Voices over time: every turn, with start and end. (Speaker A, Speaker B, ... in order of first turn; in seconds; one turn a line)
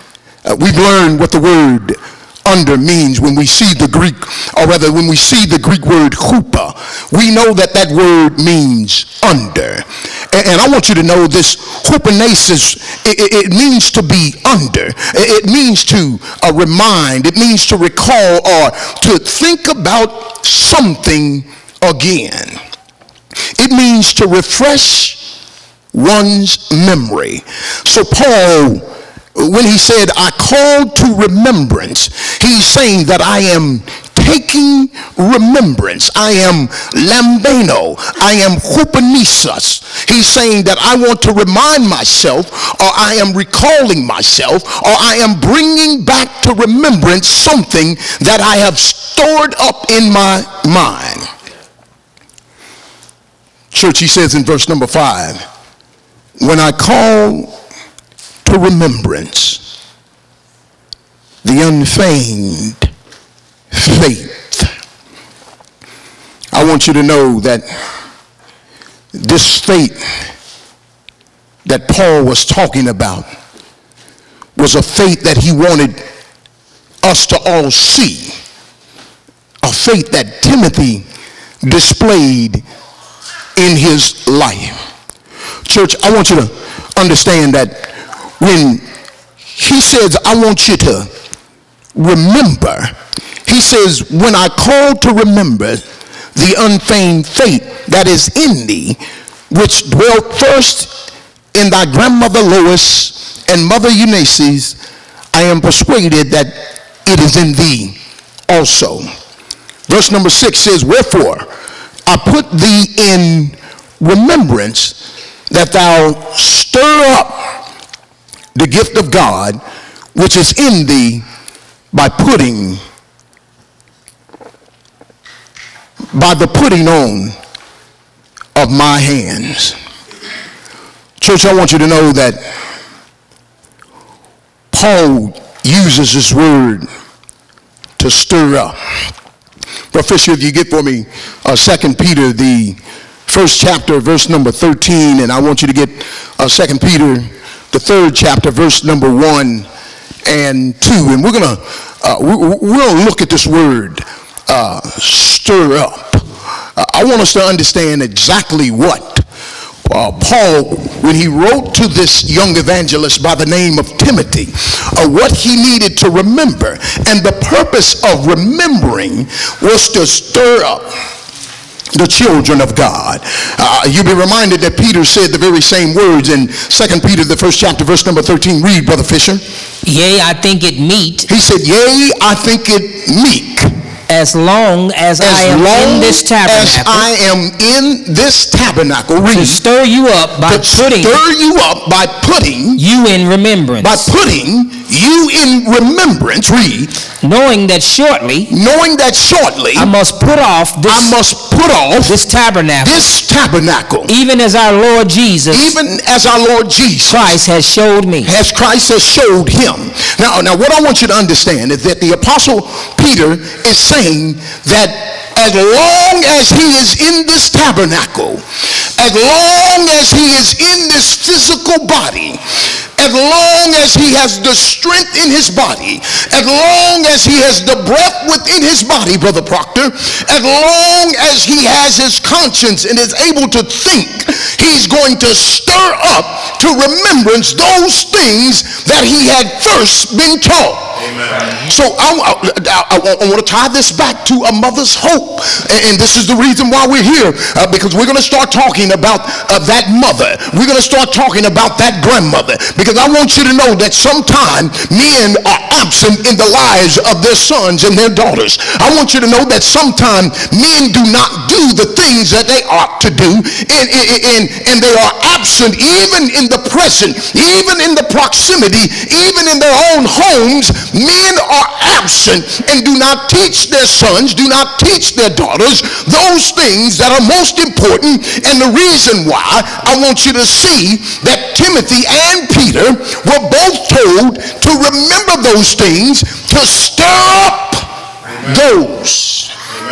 Speaker A: 0.4-22.6
Speaker A: 23.6-25.2
Speaker A: 25.9-51.3
Speaker A: 53.7-55.4
Speaker A: 56.4-57.5
Speaker A: 58.4-59.6
Speaker A: 61.4-62.9
Speaker A: 63.7-64.7
Speaker A: 66.5-67.8
Speaker A: 69.1-70.3
Speaker A: 71.6-73.2
Speaker A: 74.5-76.0
Speaker A: 77.0-78.4
Speaker A: 79.6-81.0
Speaker A: 81.6-82.6
Speaker A: 83.5-84.8
Speaker A: 85.7-88.8
Speaker A: 89.5-91.1
Speaker A: 91.9-92.9
Speaker A: 93.5-95.8
Speaker A: 96.3-100.9
Speaker A: 101.5-104.8
Speaker A: 105.3-108.0
Speaker A: 108.5-109.1
Speaker A: 109.9-111.5
Speaker A: 112.1-115.0
Speaker A: 115.5-117.5
Speaker A: 118.5-119.6
Speaker A: 120.1-121.2
Speaker A: 121.9-122.8
Speaker A: 126.1-127.3
Speaker A: 128.5-129.8
Speaker A: 131.2-132.4
Speaker A: 134.7-136.9
Speaker A: 138.0-138.8
Speaker A: 139.9-149.7
Speaker A: 150.2-156.2
Speaker A: 156.8-159.2
Speaker A: 159.8-170.9
Speaker A: 171.9-179.4
Speaker B: 179.8-181.3
Speaker A: 181.3-183.7
Speaker B: 184.1-187.1
Speaker A: 185.2-189.6
Speaker B: 189.3-191.2
Speaker A: 190.4-192.8
Speaker B: 192.8-194.1
Speaker A: 193.8-196.9
Speaker B: 197.2-198.5
Speaker A: 198.5-199.9
Speaker B: 199.7-201.1
Speaker A: 200.9-202.2
Speaker B: 202.1-203.1
Speaker A: 202.8-204.1
Speaker B: 204.1-205.7
Speaker A: 205.5-207.4
Speaker B: 207.1-208.3
Speaker A: 208.2-218.4
Speaker A: 218.9-222.4
Speaker A: 223.0-241.0
Speaker A: 241.6-289.5